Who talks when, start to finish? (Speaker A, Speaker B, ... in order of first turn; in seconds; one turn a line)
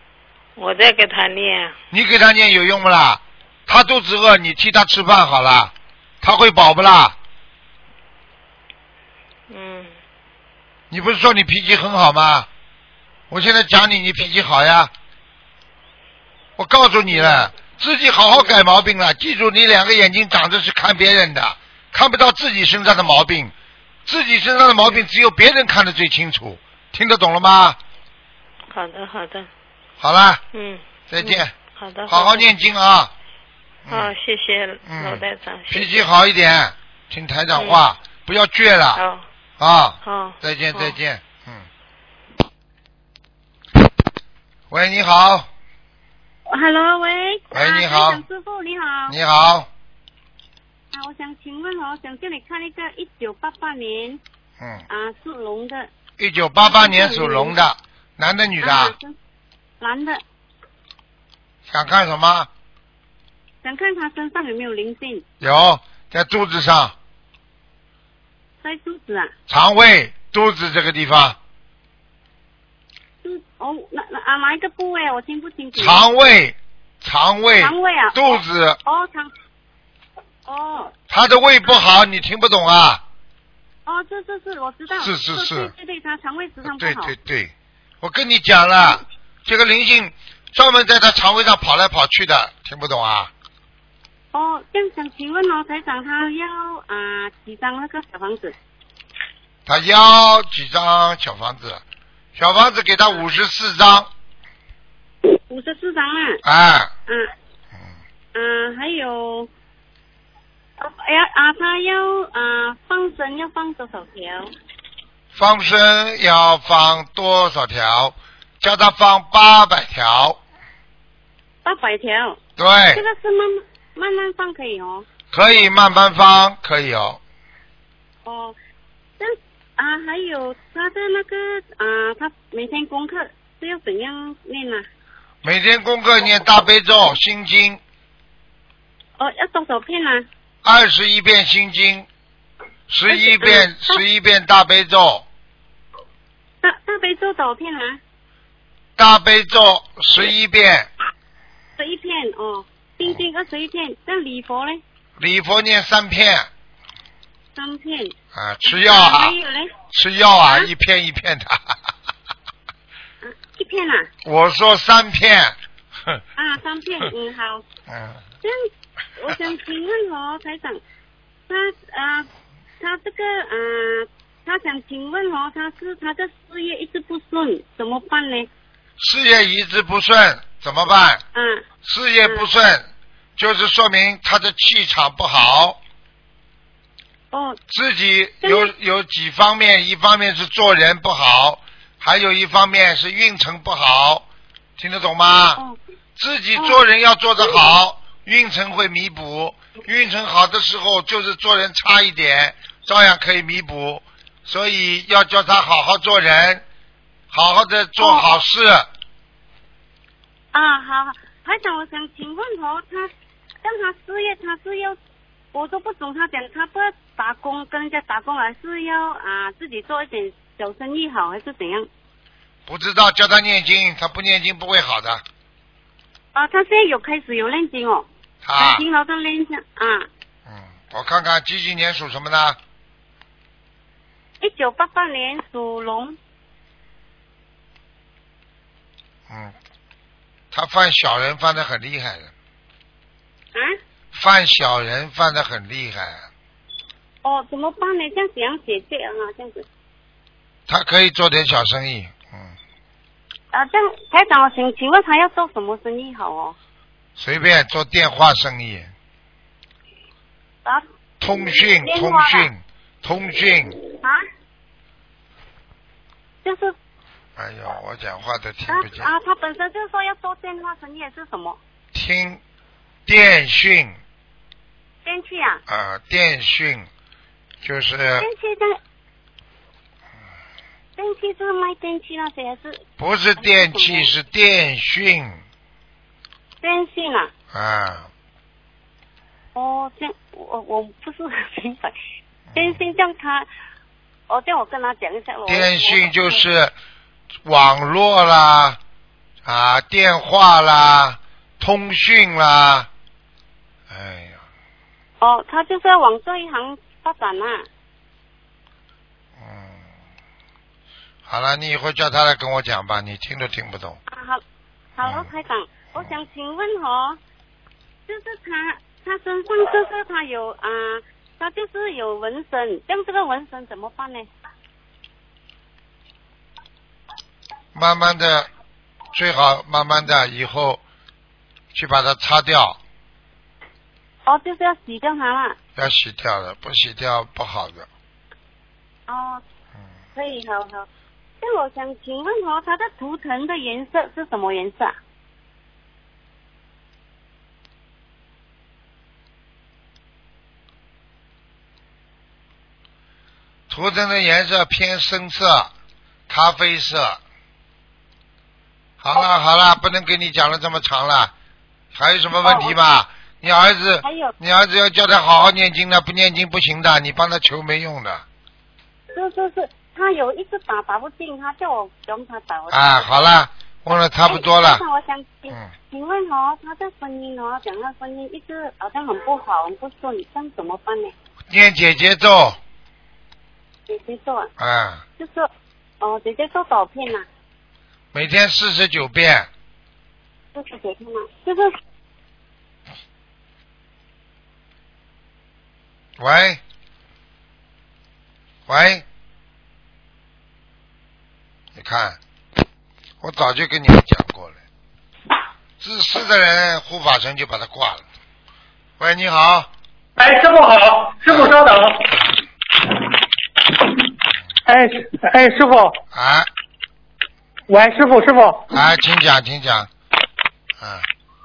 Speaker A: 0.6-1.8
Speaker B: 1.9-7.2
Speaker A: 9.5-9.9
Speaker B: 10.9-12.5
Speaker B: 13.3-14.9
Speaker B: 16.6-23.5
Speaker A: 17.1-17.5
Speaker B: 24.1-27.8
Speaker A: 28.7-29.5
Speaker B: 30.0-30.4
Speaker A: 30.5-32.5
Speaker B: 31.1-31.5
Speaker B: 32.1-33.1
Speaker B: 33.9-34.1
Speaker A: 33.9-36.0
Speaker B: 34.9-39.0
Speaker A: 39.0-39.2
Speaker B: 39.6-41.7
Speaker A: 40.0-41.0
Speaker B: 44.7-45.5
Speaker C: 46.5-49.2
Speaker B: 47.5-48.2
Speaker B: 49.1-49.7
Speaker C: 50.9-54.2
Speaker B: 54.6-54.8
Speaker C: 54.9-55.9
Speaker B: 56.2-58.9
Speaker C: 56.6-57.7
Speaker C: 58.6-59.2
Speaker C: 59.8-60.2
Speaker B: 61.7-62.5
Speaker C: 63.6-65.2
Speaker B: 65.4-67.0
Speaker C: 68.6-69.3
Speaker B: 69.5-71.4
Speaker C: 73.2-76.0
Speaker B: 75.8-78.8
Speaker C: 77.5-79.3
Speaker C: 80.5-80.9
Speaker B: 81.1-83.0
Speaker C: 83.9-87.1
Speaker B: 84.9-85.7
Speaker B: 86.6-93.3
Speaker C: 94.3-98.5
Speaker B: 99.7-101.8
Speaker B: 102.4-104.1
Speaker C: 105.4-106.4
Speaker B: 106.4-106.9
Speaker C: 108.3-109.5
Speaker C: 110.8-114.5
Speaker B: 115.3-120.4
Speaker C: 121.6-122.4
Speaker B: 122.6-123.0
Speaker C: 122.9-125.1
Speaker B: 125.3-127.2
Speaker C: 128.2-128.6
Speaker C: 129.2-134.9
Speaker B: 135.4-137.8
Speaker C: 139.2-140.3
Speaker B: 140.6-142.1
Speaker B: 142.9-145.3
Speaker C: 143.1-144.0
Speaker C: 146.6-148.0
Speaker B: 149.0-150.9
Speaker C: 151.8-154.8
Speaker B: 155.2-156.5
Speaker C: 157.6-158.1
Speaker B: 158.3-159.4
Speaker C: 158.7-159.7
Speaker B: 159.9-161.8
Speaker C: 160.4-160.7
Speaker C: 163.2-164.1
Speaker B: 164.2-166.2
Speaker C: 166.4-167.6
Speaker B: 167.9-168.2
Speaker C: 168.4-170.8
Speaker C: 171.5-172.3
Speaker C: 172.8-178.5
Speaker B: 179.0-181.2
Speaker C: 181.3-181.7
Speaker B: 181.8-185.8
Speaker C: 187.3-187.6
Speaker B: 187.7-194.2
Speaker C: 188.4-188.7
Speaker B: 194.8-195.6
Speaker B: 196.2-206.6
Speaker C: 196.6-196.8
Speaker B: 207.3-208.9
Speaker C: 208.0-208.4
Speaker C: 210.5-213.1
Speaker C: 213.6-215.0
Speaker C: 215.5-221.9
Speaker B: 222.7-225.2
Speaker C: 226.3-228.1
Speaker B: 228.4-228.8
Speaker C: 228.6-230.1
Speaker B: 230.5-232.6
Speaker C: 234.4-236.2
Speaker B: 239.3-239.6
Speaker B: 240.5-242.3
Speaker B: 244.1-246.3
Speaker C: 247.2-249.7
Speaker B: 250.7-252.5
Speaker C: 253.5-256.6
Speaker B: 257.2-258.9
Speaker C: 260.6-262.5
Speaker B: 261.2-263.8
Speaker C: 266.4-266.7
Speaker B: 267.4-269.1
Speaker C: 268.7-271.6
Speaker B: 271.9-272.4
Speaker B: 273.1-274.0
Speaker C: 275.1-275.6
Speaker B: 275.7-276.9
Speaker B: 277.6-278.3
Speaker C: 278.2-278.8
Speaker C: 281.0-282.8
Speaker B: 283.0-285.4
Speaker C: 283.4-284.1
Speaker C: 286.6-287.3
Speaker B: 287.5-288.1
Speaker C: 289.6-291.9
Speaker B: 292.5-292.8
Speaker C: 292.5-293.5
Speaker C: 294.3-296.4
Speaker B: 295.5-296.7
Speaker B: 297.4-298.8
Speaker B: 299.4-302.9
Speaker B: 303.9-304.4
Speaker C: 305.2-307.7
Speaker B: 309.4-309.9
Speaker B: 311.3-314.0
Speaker C: 314.1-314.4
Speaker C: 314.9-317.2
Speaker B: 315.0-315.3
Speaker C: 318.1-324.3
Speaker B: 327.8-328.5
Speaker B: 329.1-330.8
Speaker B: 331.7-332.8
Speaker C: 334.3-335.6
Speaker B: 335.8-337.9
Speaker C: 339.1-339.4
Speaker C: 340.1-340.9
Speaker C: 341.4-345.0
Speaker B: 353.7-355.7
Speaker B: 356.3-357.2
Speaker B: 359.0-361.3
Speaker B: 361.9-368.2
Speaker C: 362.4-362.7
Speaker C: 364.0-364.4
Speaker C: 369.1-373.4
Speaker B: 372.7-374.8
Speaker C: 374.2-381.1
Speaker B: 381.5-382.6
Speaker C: 383.9-384.5
Speaker B: 384.6-385.0
Speaker C: 385.2-385.5
Speaker C: 386.0-387.3
Speaker B: 388.1-389.5
Speaker C: 390.6-391.8
Speaker B: 396.2-396.6
Speaker B: 398.7-399.1
Speaker B: 401.8-402.2
Speaker B: 403.2-404.6
Speaker B: 405.8-408.0
Speaker B: 409.0-409.7
Speaker D: 410.2-412.2
Speaker B: 411.3-412.4
Speaker D: 414.7-416.0
Speaker B: 416.1-416.5
Speaker D: 417.7-418.7
Speaker B: 418.7-419.9
Speaker B: 420.8-421.1